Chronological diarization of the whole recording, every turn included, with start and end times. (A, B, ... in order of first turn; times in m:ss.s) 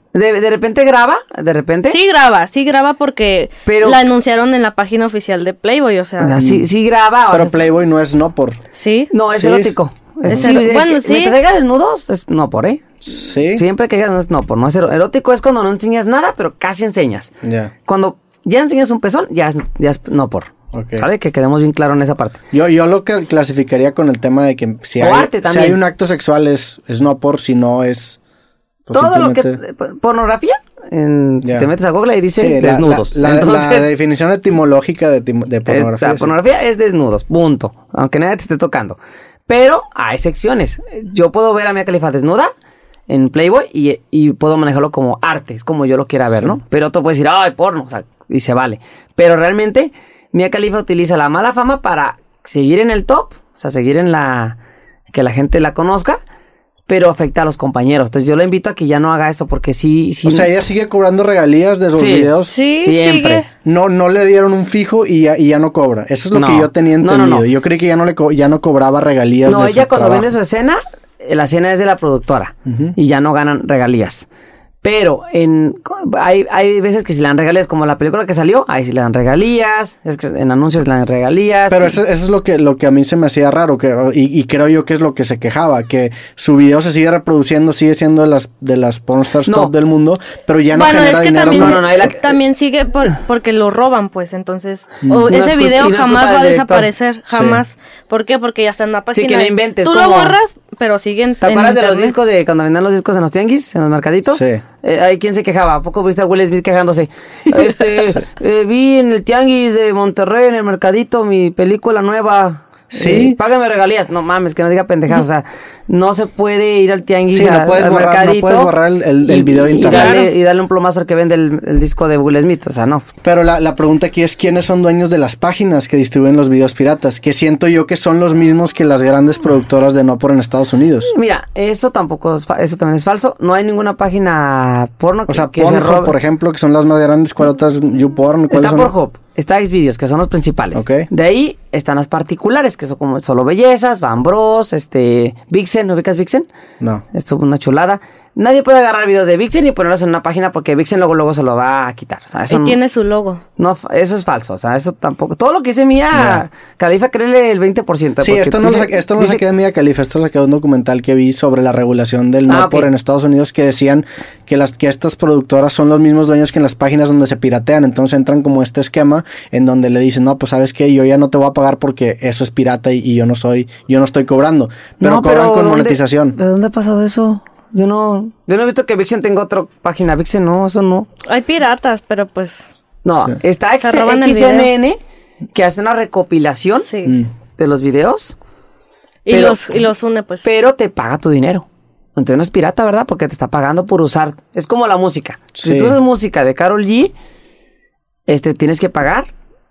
0:00.1-0:02.0 A
0:01.9-0:06.4 B
0:03.7-0:04.0 A
0:06.2-0:07.6 A
0:06.4-0:06.7 C
0:07.3-0:08.6 C
0:08.7-0:09.1 B
0:09.1-0:12.9 A
0:09.3-0:09.8 C
0:10.3-0:10.6 C
0:10.3-0:11.4 B
0:13.0-0:13.6 C
0:13.5-0:17.3 A
0:17.4-0:17.7 C
0:17.8-0:22.4 A
0:20.7-0:21.1 C
0:22.5-0:28.2 C
0:25.0-0:25.8 A
0:28.9-0:29.6 C
0:28.9-0:33.9 A
0:31.4-0:31.7 C
0:32.4-0:36.3 C
0:35.7-0:42.5 A
0:43.1-0:54.6 A
0:55.1-0:56.2 A
0:56.9-1:00.5 A
1:00.2-1:02.6 C
1:02.0-1:03.4 A
1:02.5-1:03.5 B
1:03.6-1:10.3 C
1:06.3-1:07.5 A
1:09.5-1:14.3 A
1:12.7-1:13.0 C
1:14.8-1:22.0 A
1:21.7-1:32.0 C
1:29.4-1:29.7 A
1:30.7-1:42.2 B
1:31.5-1:32.2 A
1:35.3-1:36.9 A
1:37.3-1:37.6 C
1:39.1-1:40.4 A
1:41.4-1:58.7 A
1:44.3-1:44.6 C
1:52.9-1:53.4 C
1:57.3-2:00.2 C
1:59.2-2:03.1 A
1:59.8-2:00.3 B
2:03.2-2:11.1 C
2:11.0-2:16.2 A
2:15.3-2:18.9 C
2:18.5-2:26.5 A
2:20.8-2:21.1 C
2:27.1-2:32.8 A
2:32.5-2:33.4 B
2:33.6-2:39.4 A
2:36.1-2:36.4 C
2:38.2-2:56.4 C
2:42.5-2:42.9 A
2:55.0-3:01.1 A
3:01.3-3:02.7 B
3:03.0-3:05.0 A
3:03.8-3:04.7 B
3:05.5-3:06.9 A
3:06.9-3:07.1 B
3:07.6-3:08.4 A
3:09.3-3:10.5 B
3:09.3-3:09.7 A
3:10.4-3:17.1 A
3:15.6-3:16.0 C
3:18.3-3:19.3 A